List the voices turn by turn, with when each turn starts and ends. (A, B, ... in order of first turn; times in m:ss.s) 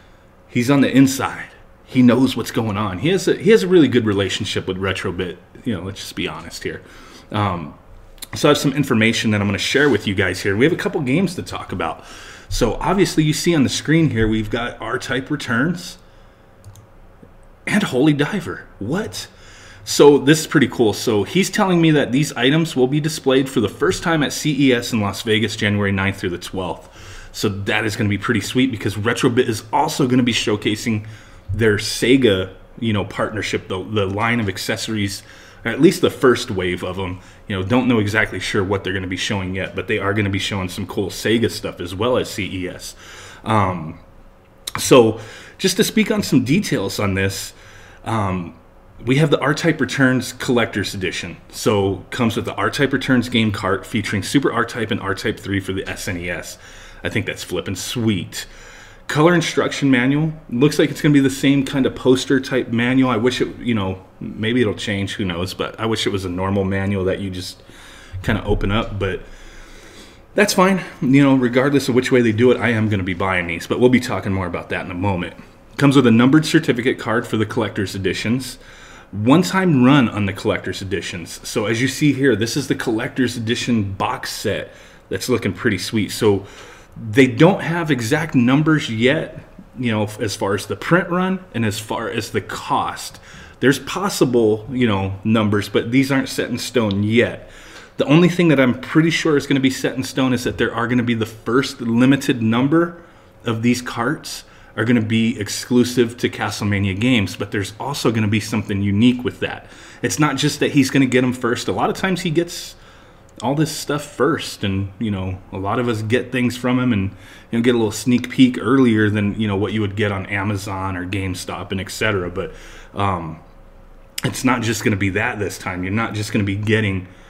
0:00.5-0:07.8 A
0:08.3-0:16.0 A
0:17.7-0:19.3 A
0:19.8-0:44.0 A
0:44.8-0:58.5 A
0:59.1-1:07.6 A
1:08.2-1:09.3 A
1:10.4-1:18.6 A
1:19.1-1:52.8 A
1:53.4-2:03.4 A
2:04.2-2:07.1 A